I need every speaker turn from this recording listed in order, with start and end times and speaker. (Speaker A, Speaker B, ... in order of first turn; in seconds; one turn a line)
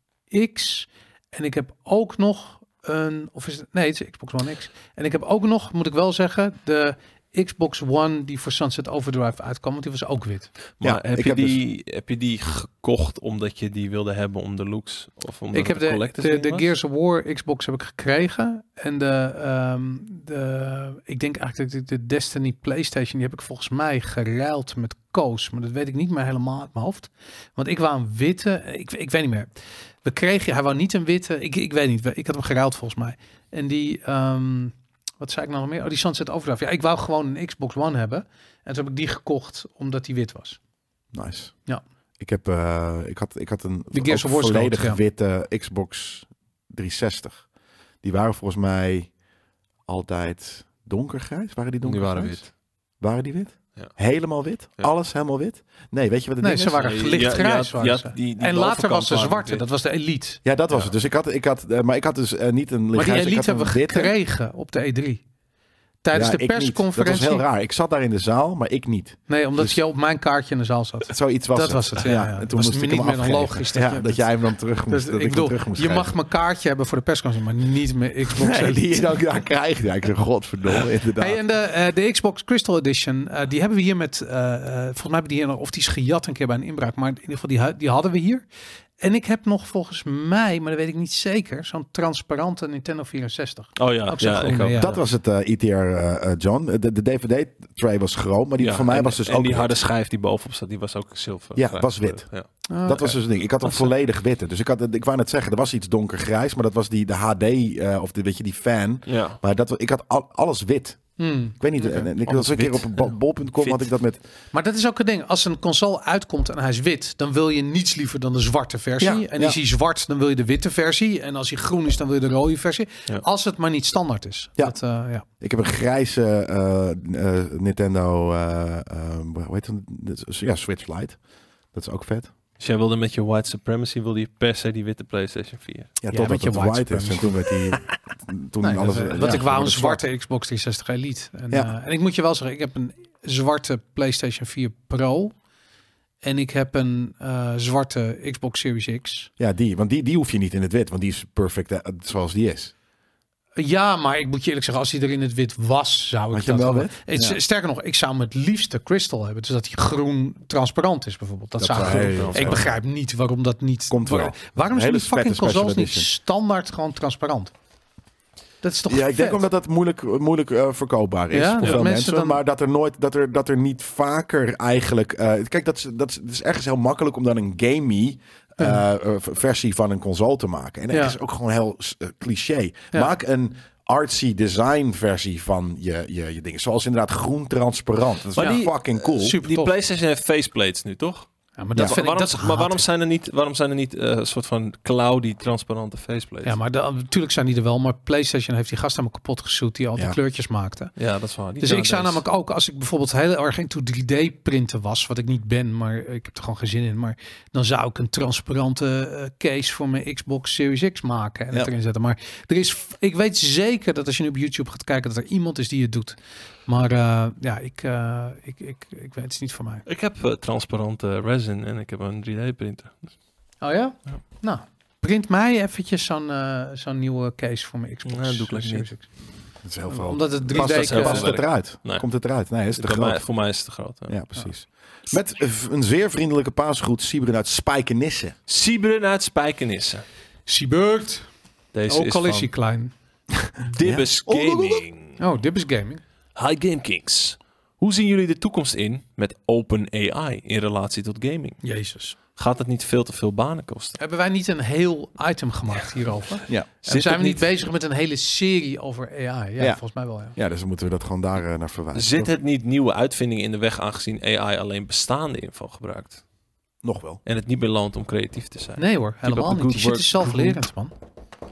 Speaker A: 0.3-10.5
Speaker B: 10.8-16.7
Speaker C: 10.8-11.6
Speaker A: 15.5-29.5
Speaker A: 30.0-40.6
Speaker C: 41.1-41.5
Speaker C: 42.2-47.5
Speaker A: 43.9-45.0
Speaker C: 48.0-49.1
Speaker C: 49.9-52.4
Speaker B: 51.8-52.5
Speaker C: 53.0-56.9
Speaker A: 56.4-60.4
Speaker B: 56.8-59.6
Speaker C: 60.4-64.1
Speaker A: 62.9-65.2
Speaker A: 66.0-67.4
Speaker C: 66.1-69.8
Speaker A: 69.3-74.2
Speaker C: 71.1-76.1
Speaker A: 74.9-79.2
Speaker C: 78.3-81.4
Speaker A: 81.2-88.4
Speaker A: 89.0-95.0
Speaker B: 93.8-95.0
Speaker C: 94.8-99.7
Speaker B: 98.6-102.5
Speaker C: 101.5-102.3
Speaker A: 102.7-103.2
Speaker C: 102.8-114.2
Speaker B: 109.1-109.4
Speaker A: 111.2-112.0
Speaker B: 112.2-113.8
Speaker A: 114.5-125.2
Speaker C: 119.0-119.6
Speaker C: 125.4-131.2
Speaker C: 131.7-132.3
Speaker B: 132.6-135.9
Speaker C: 136.0-140.0
Speaker A: 136.1-137.5
Speaker A: 138.6-145.3
Speaker A: 146.2-149.3
Speaker C: 149.4-152.7
Speaker A: 153.6-167.5
Speaker C: 156.3-157.4
Speaker C: 161.6-162.7
Speaker B: 161.8-162.7
Speaker C: 163.9-166.1
Speaker A: 168.6-169.4
Speaker C: 168.9-189.4
Speaker A: 171.3-172.4
Speaker A: 180.9-181.2
Speaker B: 188.3-196.5
Speaker A: 188.4-189.7
Speaker A: 191.6-192.8
Speaker A: 196.4-200.9
Speaker B: 201.0-202.2
Speaker A: 201.6-219.8
Speaker B: 219.8-223.1
Speaker A: 223.6-229.1
Speaker B: 228.1-228.8
Speaker C: 229.6-233.2
Speaker A: 229.9-231.3
Speaker B: 230.5-232.0
Speaker B: 232.8-234.2
Speaker C: 234.1-238.3
Speaker B: 238.5-240.0
Speaker A: 240.5-241.3
Speaker B: 241.7-242.5
Speaker A: 241.9-242.9
Speaker B: 243.6-245.2
Speaker C: 243.8-244.8
Speaker A: 245.2-246.0
Speaker B: 246.3-251.6
Speaker A: 251.6-252.2
Speaker B: 252.3-254.0
Speaker A: 254.0-260.4
Speaker B: 256.9-257.4
Speaker C: 260.3-262.3
Speaker B: 261.9-266.2
Speaker C: 266.8-267.2
Speaker B: 267.2-270.6
Speaker A: 268.8-270.9